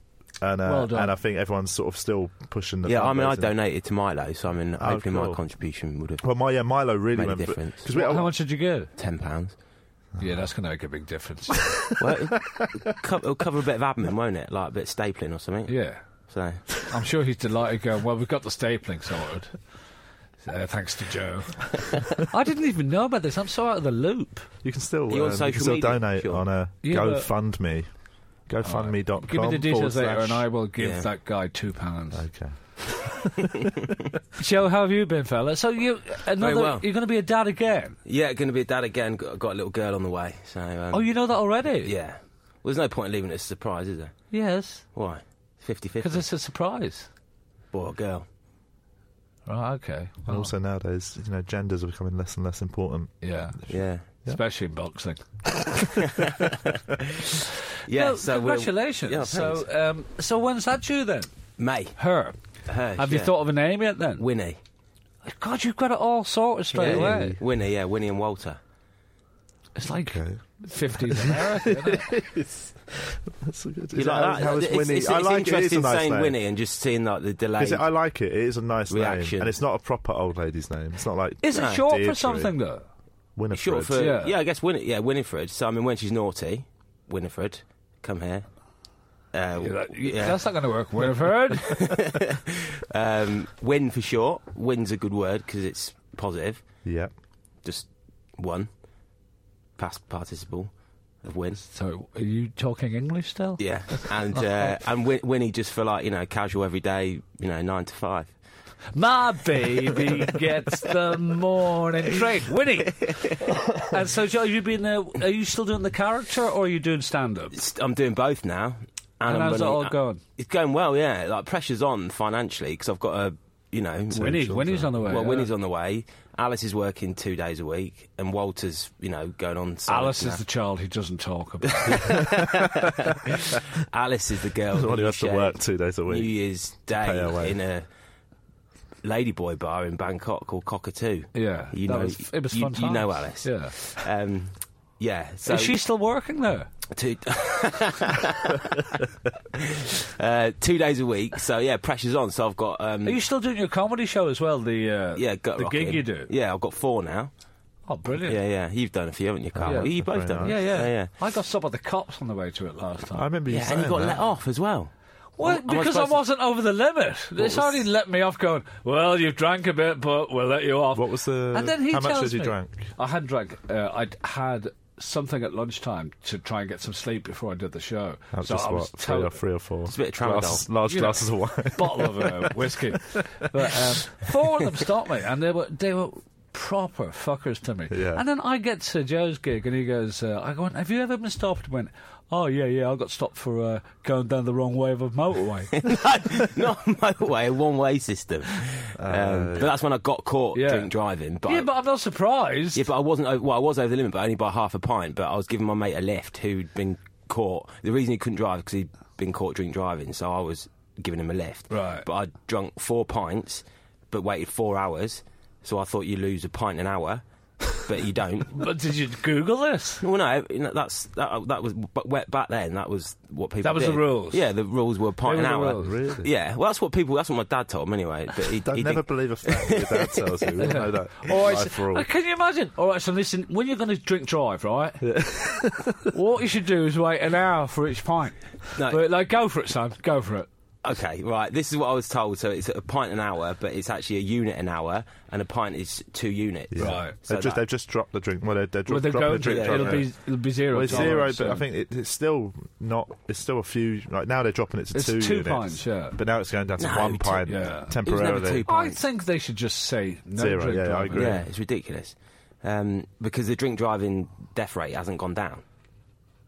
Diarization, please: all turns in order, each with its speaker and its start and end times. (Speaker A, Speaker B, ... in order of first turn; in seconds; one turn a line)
Speaker A: 0.4-3.5
Speaker B: 0.7-1.1
Speaker C: 2.8-6.3
Speaker A: 4.8-5.4
Speaker A: 6.2-8.3
Speaker C: 7.1-7.9
Speaker B: 7.9-8.9
Speaker C: 8.9-9.5
Speaker B: 10.2-11.8
Speaker C: 12.0-15.8
Speaker B: 15.7-16.0
Speaker C: 16.3-16.7
Speaker B: 16.9-19.6
Speaker B: 20.4-24.5
Speaker A: 24.6-27.9
Speaker C: 25.1-26.4
Speaker B: 26.8-27.3
Speaker A: 28.5-30.5
Speaker B: 28.6-32.2
Speaker C: 30.8-31.1
Speaker A: 32.1-33.9
Speaker B: 34.4-38.0
Speaker C: 36.4-36.9
Speaker C: 38.0-41.2
Speaker B: 40.9-41.9
Speaker C: 41.8-44.2
Speaker B: 44.3-44.8
Speaker C: 44.9-46.3
Speaker B: 46.0-47.1
Speaker C: 47.7-48.2
Speaker B: 49.5-50.5
Speaker A: 50.3-53.7
Speaker B: 53.2-53.6
Speaker C: 53.7-54.0
Speaker B: 54.2-55.9
Speaker C: 56.1-59.6
Speaker B: 57.9-61.3
Speaker C: 61.6-62.0
Speaker B: 62.0-62.4
Speaker C: 62.6-63.4
Speaker B: 63.0-64.2
Speaker C: 64.2-64.6
Speaker B: 65.2-67.4
Speaker C: 66.7-68.6
Speaker A: 66.8-67.4
Speaker B: 69.8-72.1
Speaker A: 70.0-76.3
Speaker C: 73.9-77.8
Speaker A: 77.6-82.5
Speaker C: 78.9-79.5
Speaker B: 81.4-82.8
Speaker C: 81.5-81.8
Speaker A: 83.3-84.1
Speaker C: 83.5-88.5
Speaker B: 83.9-84.3
Speaker C: 89.3-90.4
Speaker B: 89.6-91.9
Speaker C: 91.6-96.6
Speaker A: 96.8-97.1
Speaker C: 97.6-98.7
Speaker C: 99.8-100.7
Speaker C: 101.2-101.6
Speaker B: 101.6-104.7
Speaker C: 103.6-108.3
Speaker B: 108.9-117.6
Speaker C: 113.0-113.5
Speaker C: 117.5-130.4
Speaker B: 119.2-120.2
Speaker B: 124.1-125.5
Speaker A: 124.2-125.0
Speaker B: 129.9-132.0
Speaker C: 131.8-137.8
Speaker A: 131.9-132.9
Speaker A: 134.7-136.3
Speaker A: 136.9-137.6
Speaker C: 139.0-145.8
Speaker B: 141.3-143.7
Speaker B: 145.5-146.7
Speaker C: 146.9-153.2
Speaker B: 153.0-156.3
Speaker C: 155.2-157.3
Speaker B: 157.9-158.4
Speaker C: 158.2-161.1
Speaker A: 159.5-160.6
Speaker B: 159.7-163.2
Speaker A: 163.1-164.2
Speaker C: 163.5-166.2
Speaker B: 165.4-179.4
Speaker C: 167.4-167.8
Speaker A: 170.9-172.9
Speaker A: 178.3-183.8
Speaker C: 179.9-180.7
Speaker B: 180.8-195.7
Speaker A: 187.9-188.2
Speaker C: 195.7-201.7
Speaker A: 199.0-199.7
Speaker B: 200.5-200.9
Speaker B: 201.4-202.8
Speaker C: 202.7-218.7
Speaker B: 211.7-212.1
Speaker B: 218.5-220.0
Speaker C: 220.0-230.7
Speaker B: 223.6-224.4
Speaker B: 225.2-225.9
Speaker A: 225.8-226.3
Speaker A: 228.6-232.1
Speaker B: 230.6-235.1
Speaker A: 235.0-236.1
Speaker B: 236.1-240.5
Speaker C: 238.7-239.1
Speaker C: 240.8-247.6
Speaker A: 246.7-250.1
Speaker B: 246.8-247.2
Speaker B: 248.9-251.7
Speaker C: 249.3-250.1
Speaker A: 250.7-258.6
Speaker C: 250.8-251.2
Speaker B: 254.9-256.2
Speaker C: 256.8-259.0
Speaker B: 257.5-258.0
Speaker B: 258.6-261.4
Speaker A: 260.4-261.4
Speaker C: 261.1-265.6